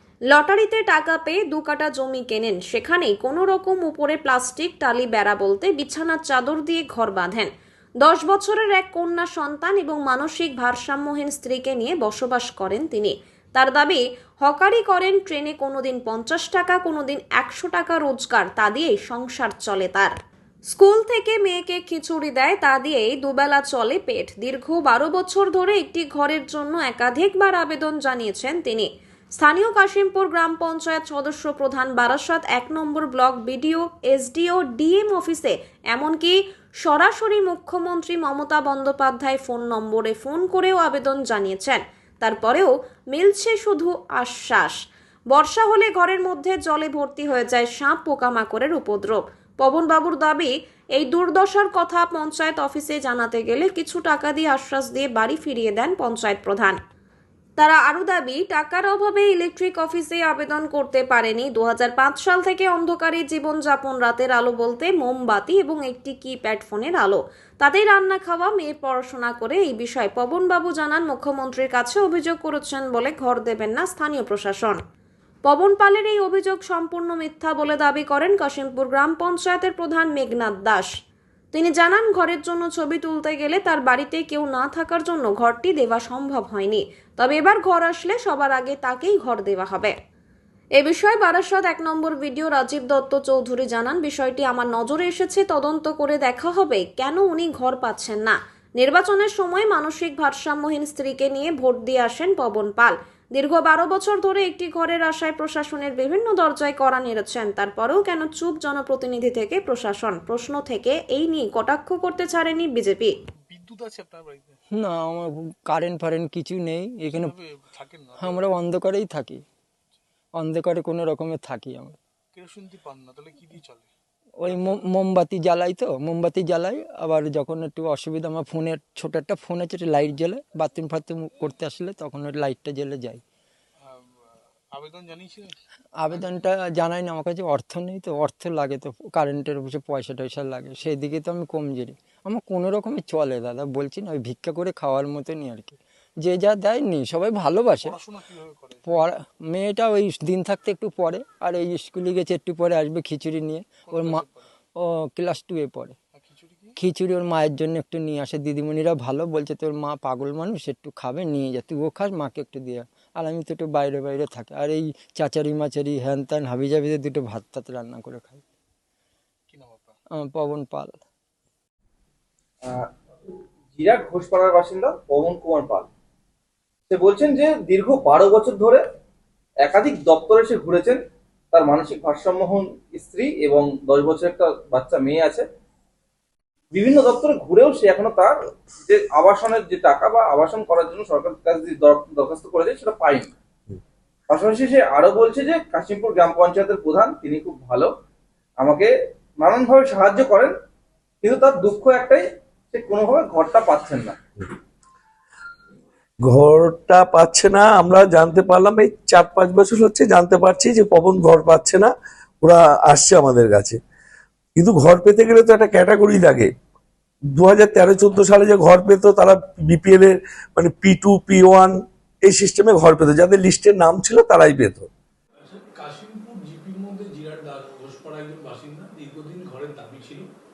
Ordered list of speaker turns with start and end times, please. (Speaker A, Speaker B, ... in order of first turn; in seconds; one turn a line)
Speaker A: 0.3-7.5
Speaker A: 8.0-20.1
Speaker A: 20.7-28.9
Speaker A: 29.4-44.8
Speaker A: 45.3-56.8
Speaker A: 57.6-74.8
Speaker A: 75.5-80.9
Speaker A: 81.5-89.9
Speaker A: 90.8-113.1
Speaker B: 113.5-114.6
Speaker C: 114.7-117.3
Speaker B: 117.1-118.5
Speaker C: 118.2-119.4
Speaker C: 120.4-122.0
Speaker B: 122.3-123.9
Speaker C: 124.4-133.2
Speaker B: 133.8-135.6
Speaker C: 136.0-148.0
Speaker B: 147.8-149.0
Speaker C: 148.9-154.2
Speaker B: 153.9-154.5
Speaker C: 154.8-156.0
Speaker B: 156.1-156.8
Speaker C: 156.8-168.4
Speaker B: 169.5-170.0
Speaker C: 170.2-171.0
Speaker D: 173.8-175.9
Speaker D: 176.9-178.8
Speaker D: 179.6-181.0
Speaker D: 181.5-185.4
Speaker D: 186.7-193.3
Speaker D: 194.3-197.9
Speaker D: 198.6-200.5
Speaker D: 201.2-204.2
Speaker E: 206.2-211.9
Speaker E: 212.4-213.8
Speaker E: 214.6-216.5
Speaker E: 217.3-224.9
Speaker B: 225.4-230.3